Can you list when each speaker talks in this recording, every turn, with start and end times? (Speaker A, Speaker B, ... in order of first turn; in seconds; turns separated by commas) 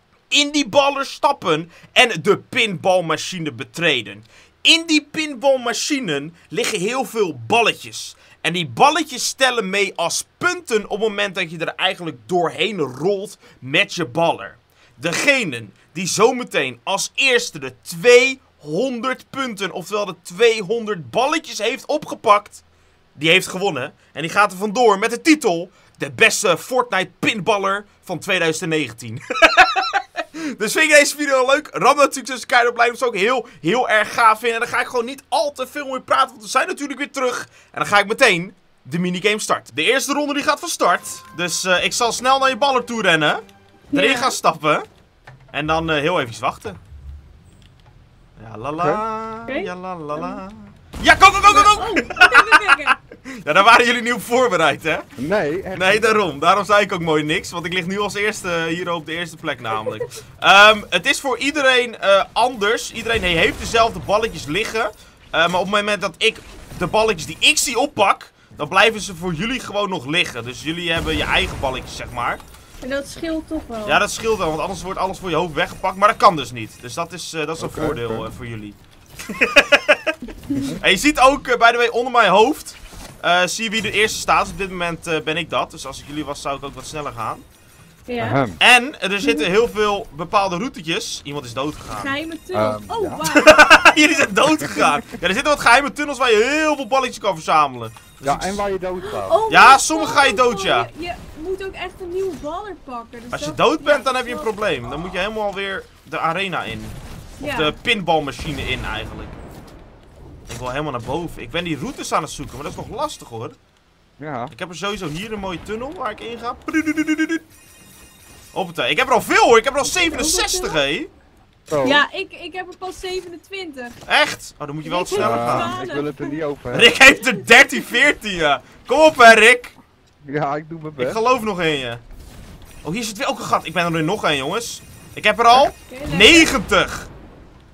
Speaker A: 0.3-22.6, Speaker A: 23.2-44.9, Speaker B: 43.9-44.4, Speaker A: 45.5-46.8, Speaker A: 48.4-55.0, Speaker B: 49.5-50.4, Speaker B: 51.5-53.0, Speaker C: 55.2-56.2, Speaker A: 55.7-72.4, Speaker B: 72.8-74.0, Speaker A: 73.8-80.1, Speaker C: 77.6-78.3, Speaker B: 80.5-80.7, Speaker C: 80.5-80.8, Speaker A: 80.8-87.4, Speaker B: 88.1-88.4, Speaker C: 88.2-88.6, Speaker A: 88.6-92.2, Speaker B: 91.9-94.3, Speaker C: 92.5-93.2, Speaker A: 93.3-98.6, Speaker C: 94.5-95.0, Speaker C: 98.2-99.4, Speaker B: 99.0-104.5, Speaker A: 99.5-100.9, Speaker A: 103.3-109.3, Speaker B: 107.4-107.8, Speaker A: 110.5-113.6, Speaker C: 114.2-114.5, Speaker A: 114.5-117.4, Speaker A: 118.5-121.1, Speaker B: 119.8-120.8, Speaker C: 121.7-122.0, Speaker B: 121.8-124.0, Speaker A: 124.1-125.8, Speaker B: 124.8-126.4, Speaker C: 125.2-126.9, Speaker A: 126.7-129.8, Speaker B: 127.2-127.5, Speaker C: 130.2-131.2, Speaker A: 131.0-132.0, Speaker A: 132.8-137.1, Speaker B: 135.8-136.5